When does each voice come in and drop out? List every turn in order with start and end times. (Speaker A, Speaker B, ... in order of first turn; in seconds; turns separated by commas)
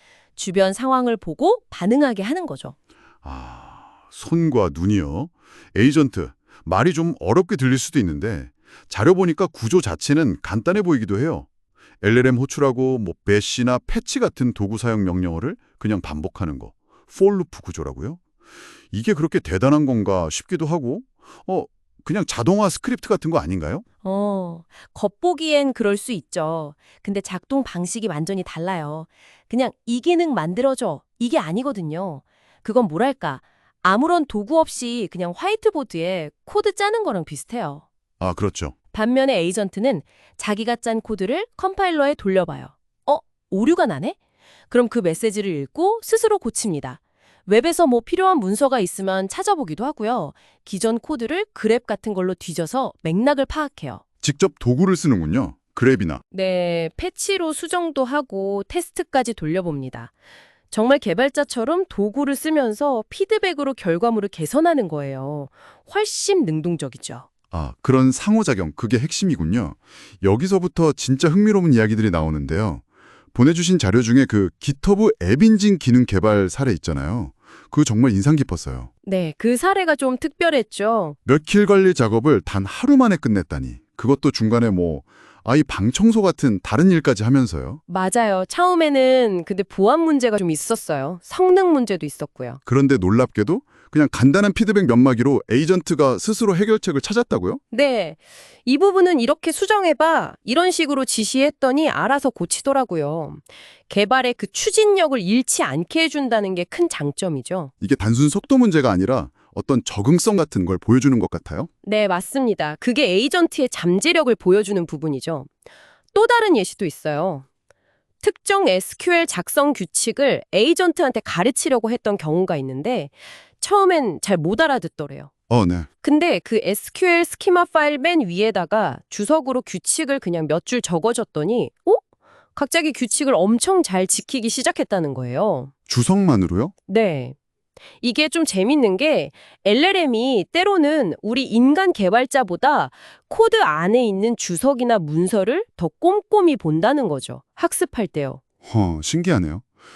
Speaker A: 0.4-2.7, Speaker B: 3.2-11.5, Speaker B: 12.0-18.2, Speaker B: 18.9-23.8, Speaker A: 24.0-37.8, Speaker B: 38.2-38.7, Speaker A: 38.9-44.2, Speaker A: 44.7-54.0, Speaker B: 54.2-56.2, Speaker A: 56.3-60.1, Speaker A: 60.7-67.3, Speaker B: 67.5-72.8, Speaker B: 73.3-78.9, Speaker A: 79.0-81.2, Speaker B: 81.2-87.8, Speaker A: 87.9-92.6, Speaker B: 92.7-97.6, Speaker A: 97.7-107.7, Speaker B: 107.8-111.7, Speaker A: 111.8-115.5, Speaker A: 116.1-117.4, Speaker A: 118.2-125.3, Speaker B: 125.5-125.9, Speaker A: 126.0-132.0, Speaker A: 132.5-135.7, Speaker B: 135.9-136.7, Speaker A: 136.9-137.3, Speaker A: 138.0-148.4, Speaker B: 148.6-149.6